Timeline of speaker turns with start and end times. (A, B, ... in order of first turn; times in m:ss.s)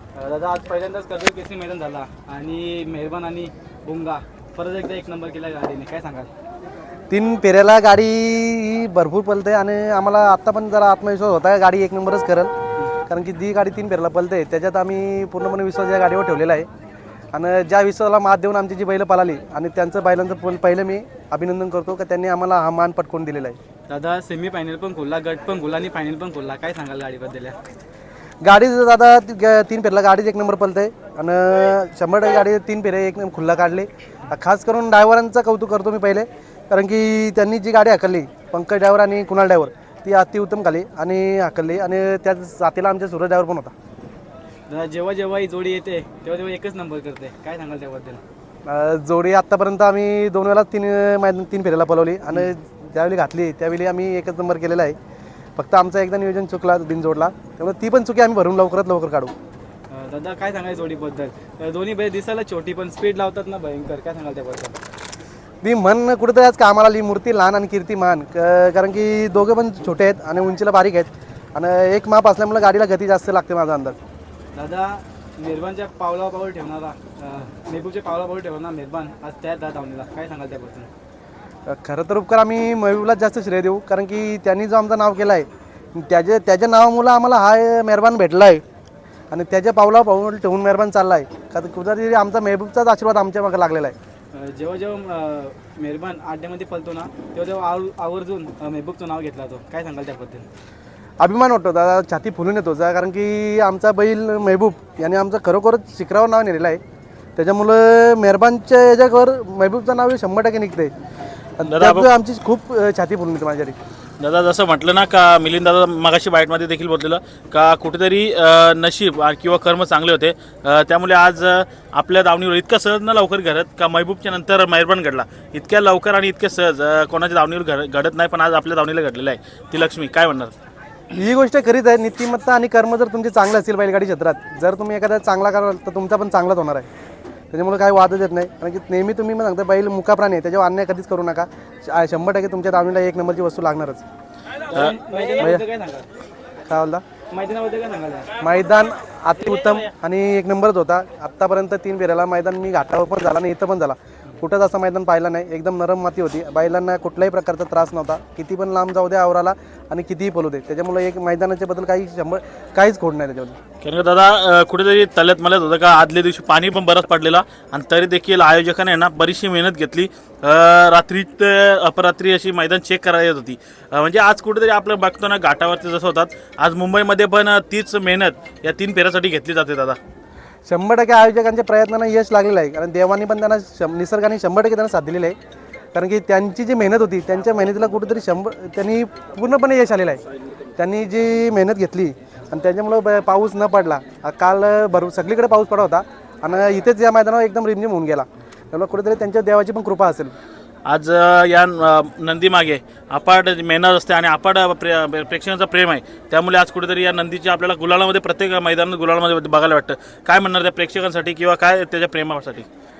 0:00.2-0:06.3 A
0:07.1-0:12.5 B
0:13.1-0:16.7 B
0:17.3-0:23.6 B
0:23.9-0:27.6 A
0:28.4-0:43.7 B
0:44.7-0:48.2 A
0:48.7-0:55.0 B
0:55.6-0:59.3 B
0:59.9-1:04.8 A
1:05.6-1:14.0 B
1:14.6-1:20.9 A
1:21.7-1:28.6 B
1:29.3-1:34.0 B
1:34.3-1:40.5 A
1:41.2-1:46.8 B
1:47.4-1:50.9 B
1:51.6-1:53.8 B
1:51.6-1:52.1 C
1:54.2-2:10.5 C
2:11.1-2:16.9 B
2:17.5-2:24.0 B
2:24.7-2:26.1 A
2:25.4-2:25.6 B
2:26.7-2:27.0 B
2:27.3-2:28.3 A
2:28.4-2:43.6 B
2:43.8-3:00.0 C
3:00.7-3:05.4 B
3:05.9-3:10.2 B
3:10.8-3:20.4 B
3:20.9-3:32.7 C